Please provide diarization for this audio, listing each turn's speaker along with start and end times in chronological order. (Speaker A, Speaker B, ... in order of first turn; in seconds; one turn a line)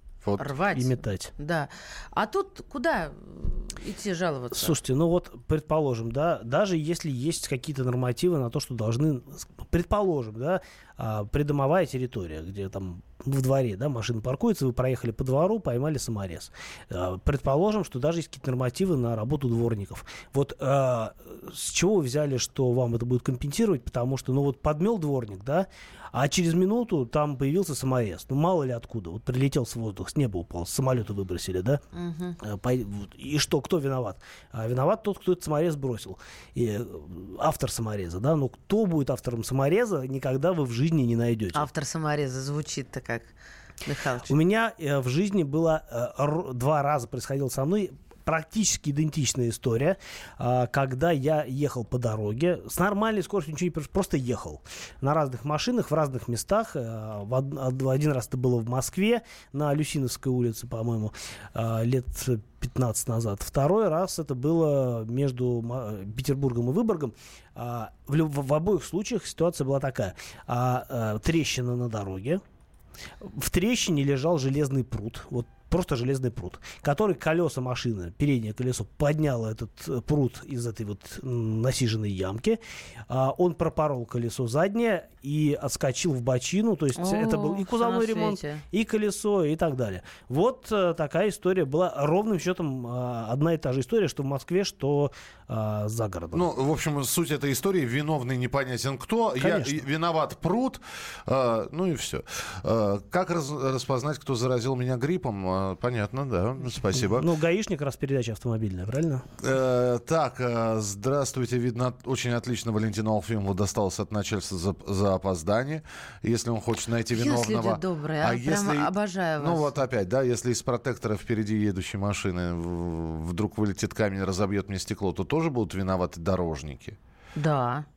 Speaker A: 0.4-4.8
Speaker B: 0.7-1.3
Speaker B: 4.5-31.8
Speaker A: 31.9-32.4
Speaker B: 32.4-41.7
Speaker A: 41.5-43.3
Speaker A: 43.8-44.3
Speaker B: 44.3-72.4
Speaker B: 73.2-96.4
Speaker A: 86.9-88.6
Speaker C: 96.3-107.3
Speaker B: 99.4-99.8
Speaker B: 107.0-109.2
Speaker C: 109.4-127.0
Speaker A: 117.1-119.8
Speaker A: 127.3-127.8